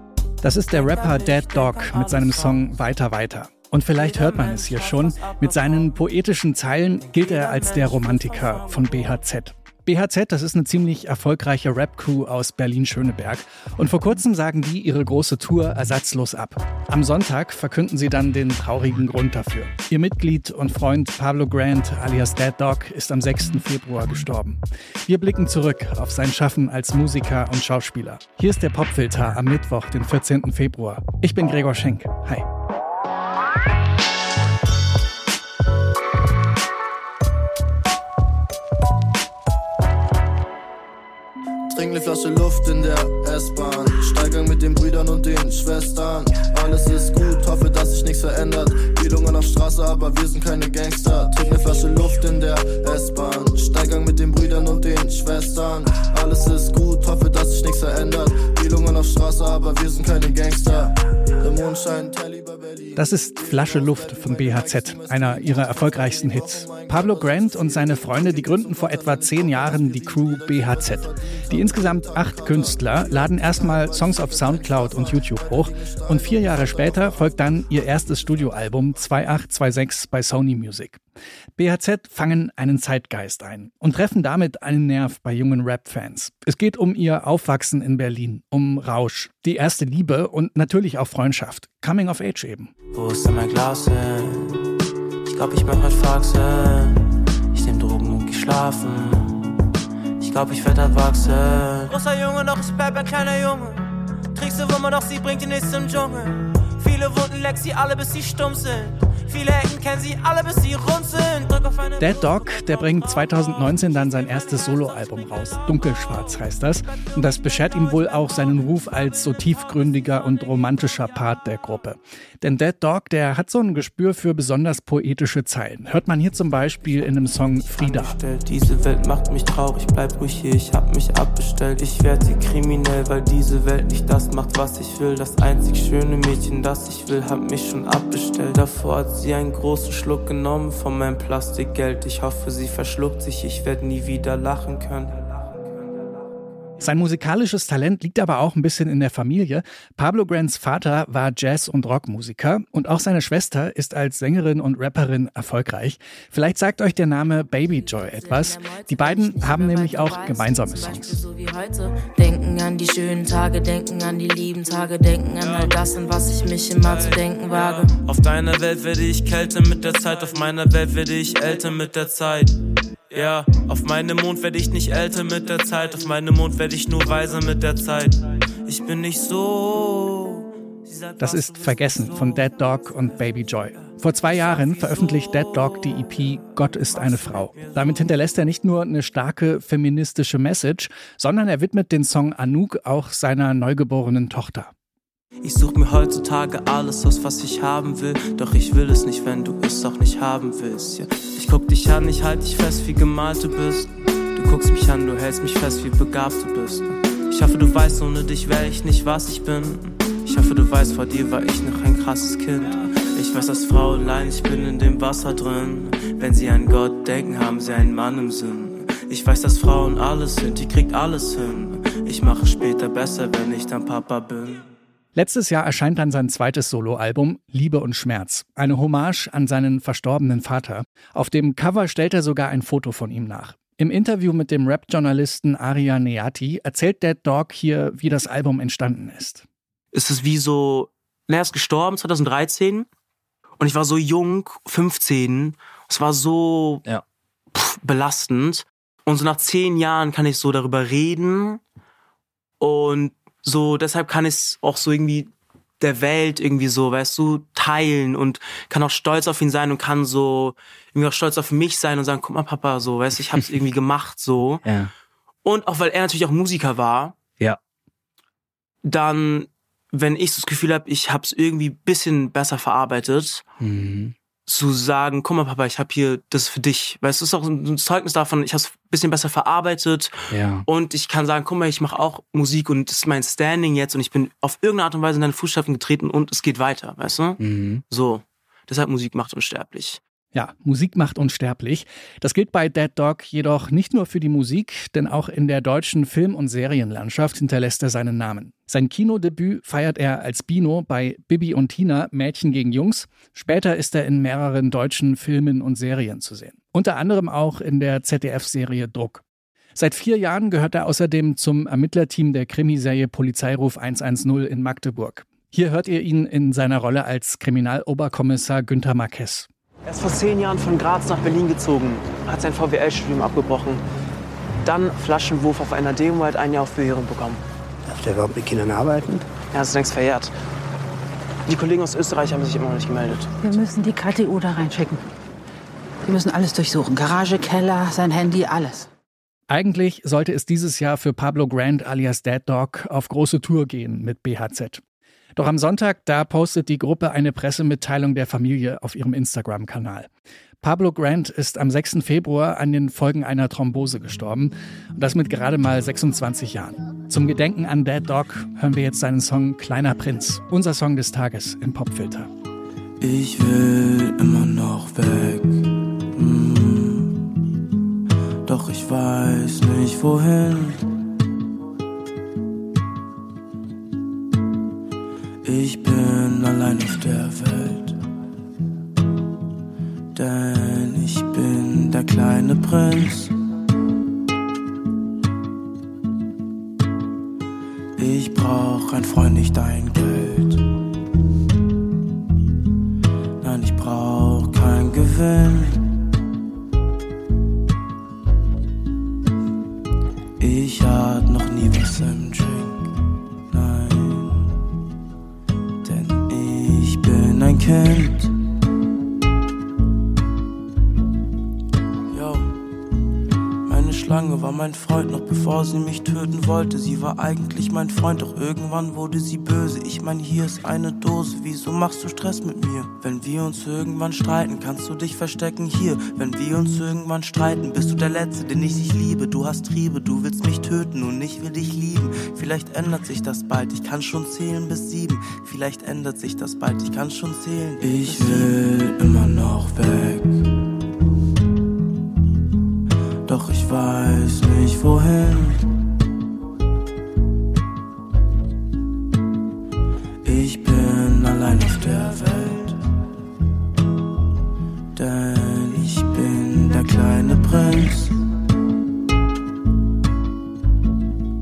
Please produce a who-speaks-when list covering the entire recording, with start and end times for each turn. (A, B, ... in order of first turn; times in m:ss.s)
0:00.4-0:32.4 A
0:00.7-0:02.8 B
0:03.9-0:05.9 B
0:07.0-0:09.2 B
0:41.7-1:17.3 C
1:02.9-1:21.0 A
1:21.6-1:32.7 A
1:32.9-1:34.7 B
1:35.2-1:39.6 B
1:40.2-1:53.8 B
1:52.0-2:08.2 A
2:07.0-2:25.6 B
2:26.8-2:41.2 A
2:37.8-2:47.9 D
2:45.4-2:45.8 B
2:46.8-2:52.6 B
2:53.1-3:08.0 B
3:01.2-3:14.7 A
3:15.4-3:44.7 B
3:45.1-3:59.4 A
3:59.9-4:02.9 B
4:03.6-4:06.8 B
4:07.5-4:11.6 B
4:12.6-4:24.6 B
4:24.6-4:24.9 E
4:25.4-4:27.2 B
4:28.8-4:33.4 B
4:33.6-4:34.1 E
4:34.4-4:50.0 B
4:40.3-4:40.7 E
4:47.4-4:47.8 E
4:50.3-5:09.2 A
5:09.8-5:19.5 A
5:19.9-5:23.8 B
5:24.6-5:27.4 B
5:27.9-5:29.2 E
5:29.5-5:30.3 B
5:31.5-5:33.3 B
5:33.4-5:35.0 F
5:36.0-5:38.9 F
5:39.5-5:44.8 A
5:45.4-5:50.1 A
5:50.6-6:02.3 A
6:03.0-6:07.2 B
6:08.4-6:10.9 B
6:15.4-6:18.0 B
6:20.1-6:23.3 B
6:28.0-6:30.6 B
6:33.4-6:35.9 B
6:40.4-6:42.9 B
6:43.5-6:44.6 B
6:45.8-6:48.3 B
6:52.1-6:52.5 B
6:53.6-7:20.4 B
7:23.2-7:25.7 B
7:30.2-7:32.8 B
7:34.9-7:38.2 B